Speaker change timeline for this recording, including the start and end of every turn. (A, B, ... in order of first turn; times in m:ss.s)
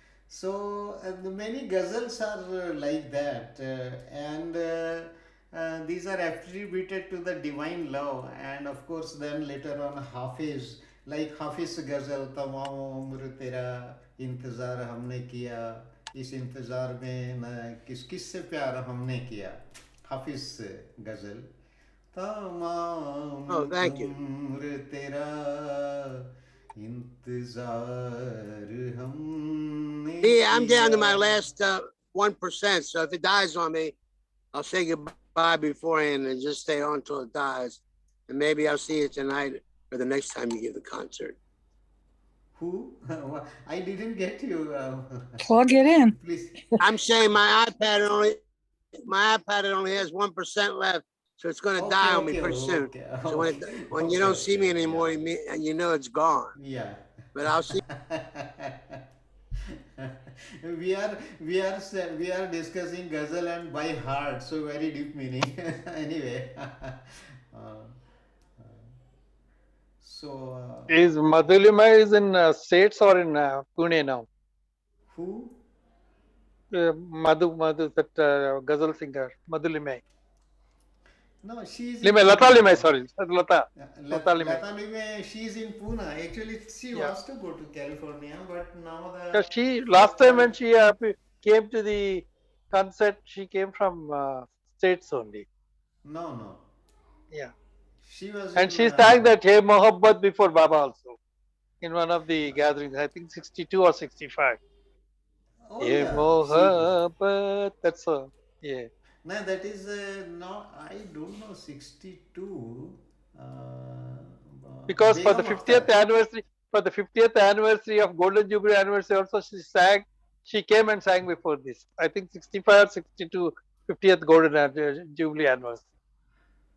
0:00.3-0:21.5 A
0:22.1-0:26.2 A
0:23.5-0:24.1 B
0:26.8-0:31.5 A
0:30.2-0:34.0 B
0:34.5-0:41.4 B
0:42.6-0:45.4 A
0:46.1-0:46.6 A
0:46.8-0:48.4 B
0:49.0-0:56.5 B
0:51.8-0:55.3 A
0:56.6-0:59.0 A
0:57.4-0:57.8 B
1:00.0-1:08.0 A
1:10.0-1:11.0 A
1:10.9-1:14.3 C
1:15.1-1:15.6 A
1:16.7-1:20.0 C
1:21.4-1:22.9 A
1:22.0-1:24.6 C
1:23.8-1:30.5 A
1:29.3-1:35.4 C
1:36.0-1:36.6 A
1:38.0-1:39.4 A
1:38.6-1:41.2 C
1:41.8-1:44.6 C
1:45.6-1:46.9 A
1:45.8-1:48.9 C
1:49.2-1:56.0 A
1:54.9-2:05.9 C